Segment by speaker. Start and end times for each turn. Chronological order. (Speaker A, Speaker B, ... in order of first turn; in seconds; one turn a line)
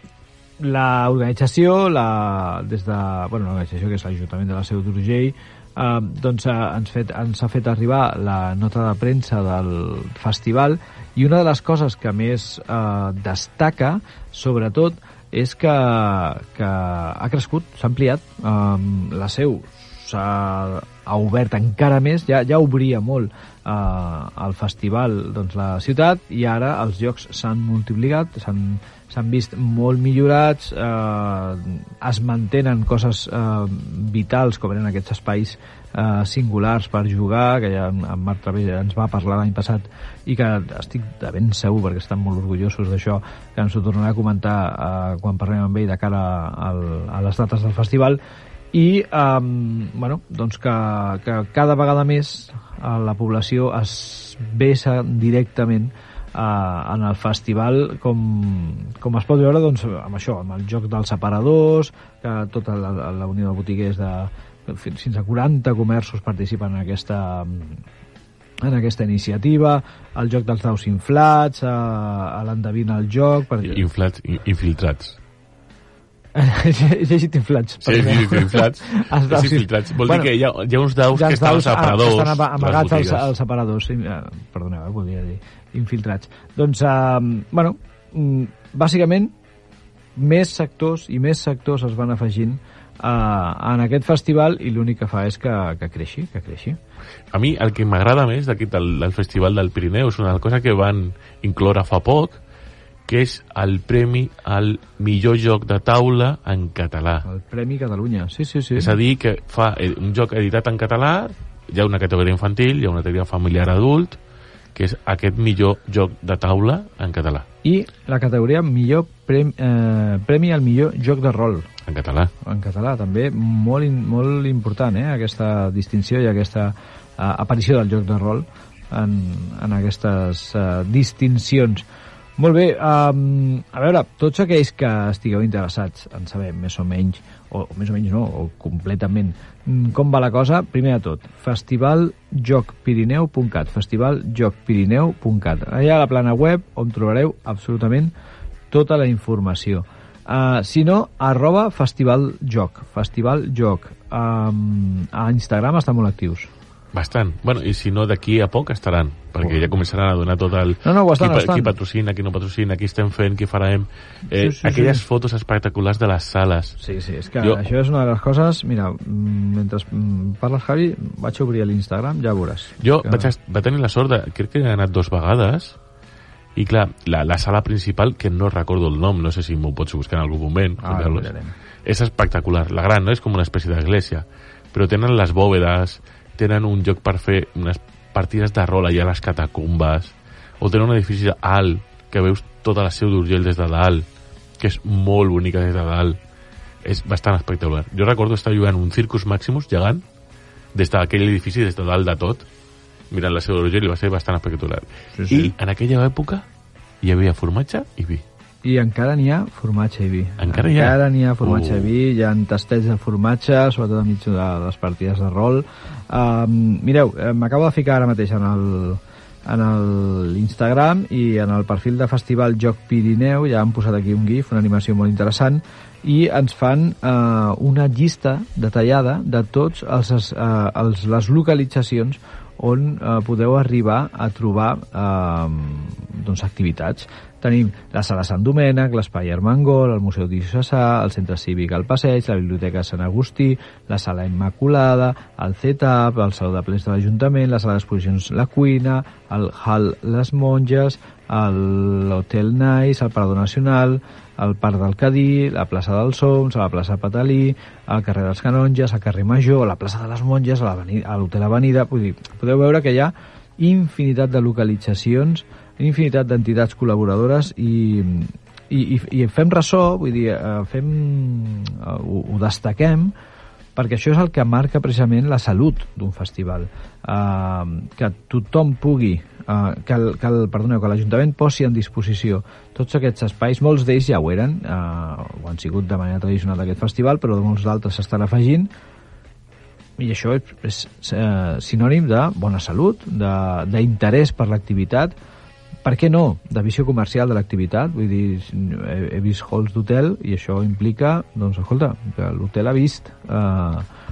Speaker A: 0.6-48.2
Speaker A: 48.7-67.8
Speaker A: 68.6-73.8
Speaker B: 73.6-75.2
Speaker A: 76.3-80.3
Speaker B: 77.8-83.3
Speaker A: 81.1-89.3
Speaker A: 90.2-96.8
Speaker B: 97.3-102.4
Speaker B: 103.1-107.2
Speaker A: 107.2-109.0
Speaker B: 108.8-114.2
Speaker B: 114.7-117.5
Speaker A: 117.6-121.7
Speaker B: 121.9-122.3
Speaker A: 122.4-131.8
Speaker A: 132.4-148.1
Speaker A: 148.7-156.5
Speaker B: 156.9-166.8
Speaker A: 160.8-161.7
Speaker A: 164.3-165.0
Speaker A: 166.8-173.3
Speaker B: 172.8-175.8
Speaker B: 176.6-181.3
Speaker A: 180.8-181.5
Speaker B: 181.8-194.1
Speaker B: 194.6-196.2
Speaker B: 196.8-200.0
Speaker B: 200.7-202.4
Speaker B: 203.1-206.4
Speaker A: 205.2-205.5
Speaker B: 207.0-208.2
Speaker A: 208.6-273.1
Speaker B: 210.4-211.9
Speaker A: 273.8-288.7
Speaker A: 290.0-295.1
Speaker A: 295.8-303.9